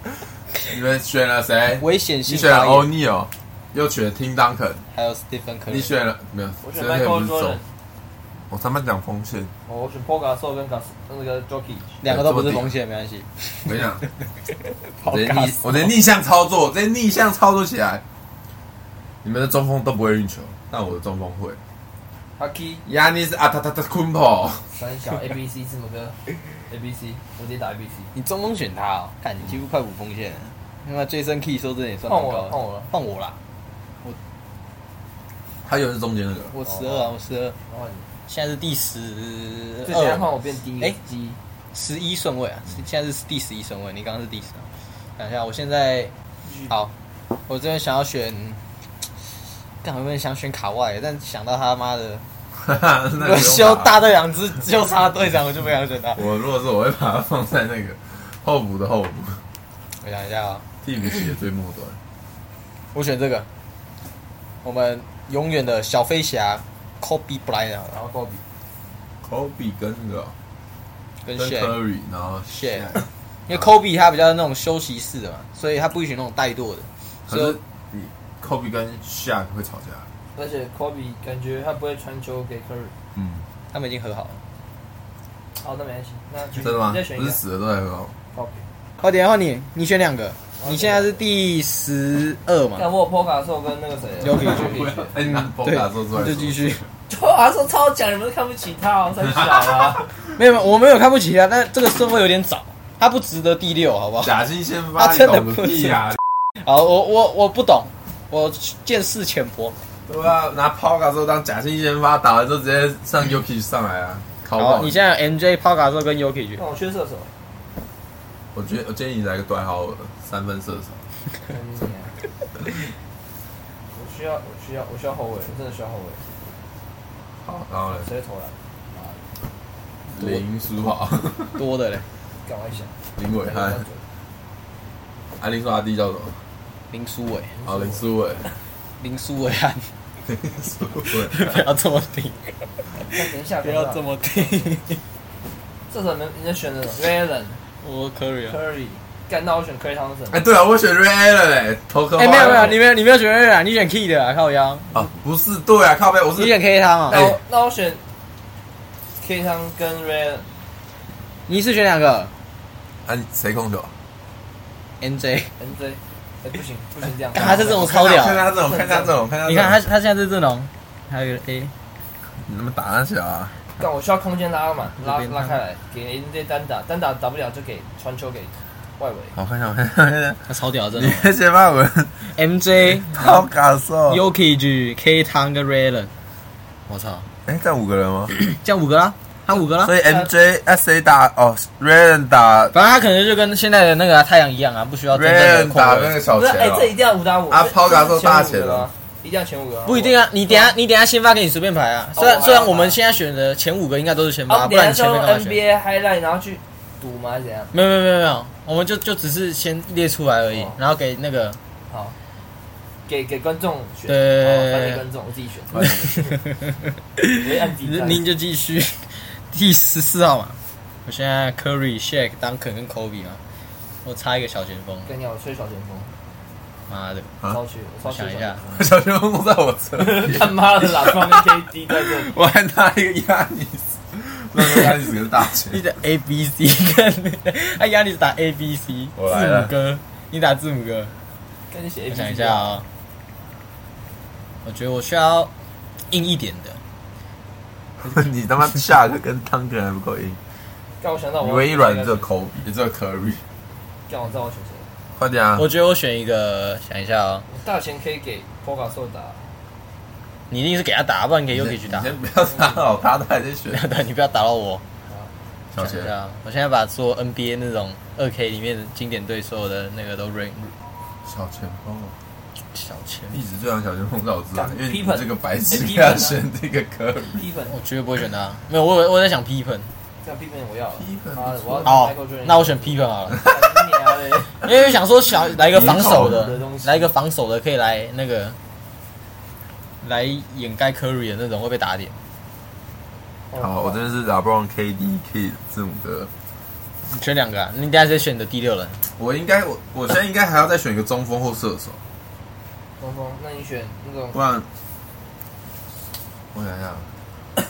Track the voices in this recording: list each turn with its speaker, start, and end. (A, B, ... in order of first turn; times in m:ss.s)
0:00.6-0:04.8 A
0:01.8-0:02.9 B
0:04.9-0:05.9 B
0:05.7-0:07.6 A
0:06.6-0:07.6 C
0:08.5-0:09.5 A
0:09.7-0:12.0 C
0:12.0-0:13.7 B
0:12.0-0:12.7 A
0:13.7-0:14.0 A
0:14.8-0:15.9 B
0:15.1-0:18.0 A
0:19.2-0:21.6 A
0:22.4-0:22.8 C
0:22.9-0:24.7 A
0:24.7-0:28.1 C
0:28.1-0:33.4 B
0:32.1-0:32.9 C
0:35.6-0:36.5 A
0:36.5-0:37.6 B
0:36.6-0:38.1 C
0:38.3-0:41.0 B
0:39.9-0:41.4 C
0:41.7-0:46.1 B
0:46.4-0:46.7 C
0:47.5-0:48.6 B
0:49.8-0:52.2 B
0:52.6-0:53.9 A
0:53.2-0:56.2 B
0:56.2-0:59.4 A
1:00.0-1:00.7 B
1:00.8-1:02.0 A
1:02.9-1:03.5 B
1:04.6-1:08.0 B
1:07.9-1:08.4 C
1:09.2-1:10.4 A
1:11.2-1:11.8 B
1:11.4-1:13.7 A
1:12.5-1:13.0 B
1:13.5-1:17.6 B
1:17.3-1:20.1 A
1:20.4-1:22.9 C
1:23.2-1:23.4 A
1:23.7-1:24.4 B
1:25.6-1:27.4 C
1:26.6-1:28.1 A
1:28.3-1:28.6 C
1:29.0-1:32.9 B
1:30.6-1:31.2 C
1:32.8-1:35.2 C
1:34.2-1:36.8 B
1:34.4-1:36.8 A
1:37.1-1:40.1 C
1:40.4-1:44.4 B
1:44.2-1:46.2 A
1:45.0-1:49.8 B
1:50.1-1:55.0 A
1:54.6-1:56.6 B
1:56.6-1:57.3 C
1:58.5-2:01.0 A
2:01.5-2:02.2 C
2:03.9-2:06.2 C
2:07.4-2:08.1 A
2:07.9-2:09.2 C
2:10.1-2:10.4 B
2:10.1-2:11.6 A
2:11.6-2:12.0 B
2:12.4-2:14.0 C
2:13.2-2:13.8 A
2:15.4-2:16.4 A
2:16.9-2:17.5 B
2:17.6-2:18.0 C
2:17.6-2:18.5 A
2:19.0-2:19.9 B
2:20.3-2:21.6 A
2:21.1-2:23.1 B
2:23.1-2:24.5 C
2:23.6-2:25.0 B
2:25.9-2:27.6 C
2:27.8-2:28.6 B
2:28.5-2:30.4 C
2:30.3-2:32.8 A
2:32.2-2:35.1 B
2:32.3-2:32.8 C
2:34.9-2:36.6 A
2:36.4-2:37.2 B
2:37.1-2:37.4 A
2:37.1-2:38.0 C
2:39.2-2:40.5 C
2:41.5-2:42.3 B
2:43.1-2:43.9 A
2:45.0-2:45.5 B
2:45.6-2:48.0 C
2:47.3-2:48.4 B
2:47.4-2:49.8 A
2:48.5-2:49.1 C
2:49.5-2:51.7 B
2:52.4-2:53.5 A
2:53.8-2:59.4 C
2:55.0-2:55.6 B
2:59.4-3:02.1 A
3:00.5-3:01.3 B
3:02.2-3:03.5 B
3:03.0-3:04.2 A
3:04.1-3:06.1 B
3:06.9-3:07.3 B
3:07.5-3:08.3 A
3:08.3-3:09.9 B
3:09.8-3:12.7 A
3:10.0-3:10.3 C
3:12.7-3:16.2 B
3:15.1-3:16.9 A
3:16.3-3:20.8 C
3:17.5-3:18.9 A
3:19.9-3:25.6 B
3:22.2-3:23.0 C
3:24.5-3:27.7 C
3:27.7-3:31.6 B
3:30.5-3:30.8 C
3:31.9-3:32.2 C
3:33.1-3:36.3 C
3:34.1-3:35.0 B
3:35.8-3:36.0 A
3:35.8-3:43.4 B
3:37.4-3:38.2 C
3:44.0-3:45.1 B
3:45.1-3:46.1 C
3:46.9-3:47.3 B
3:47.4-3:48.9 C
3:48.1-3:48.6 B
3:48.7-3:55.8 A
3:50.0-3:52.3 C
3:55.7-4:01.1 B
3:59.2-3:59.7 A
4:01.7-4:02.8 C
4:02.1-4:02.8 B
4:04.6-4:05.5 B
4:06.1-4:06.8 B
4:08.0-4:10.4 A
4:11.0-4:12.3 C
4:11.4-4:13.4 A
4:14.1-4:14.9 C
4:15.2-4:15.7 A
4:15.6-4:17.5 B
4:17.5-4:19.5 C
4:20.5-4:22.1 B
4:21.5-4:23.8 A
4:22.5-4:23.0 C
4:23.7-4:24.8 B
4:25.7-4:26.1 A
4:25.8-4:30.8 B
4:31.2-4:32.2 A
4:32.7-4:33.4 B
4:33.3-4:37.4 A
4:34.6-4:36.4 C
4:37.3-4:37.8 C
4:37.7-4:39.9 B
4:40.2-4:44.6 C
4:41.0-4:42.0 A
4:41.8-4:43.4 B
4:44.6-4:48.6 B
4:45.6-4:46.5 A
4:45.7-4:47.1 C
4:50.0-4:52.2 B
4:53.5-4:54.0 C
4:53.6-4:56.3 A
4:57.0-4:59.0 B
4:59.1-5:02.0 A
5:03.0-5:04.4 C
5:04.3-5:04.7 A
5:06.5-5:07.1 A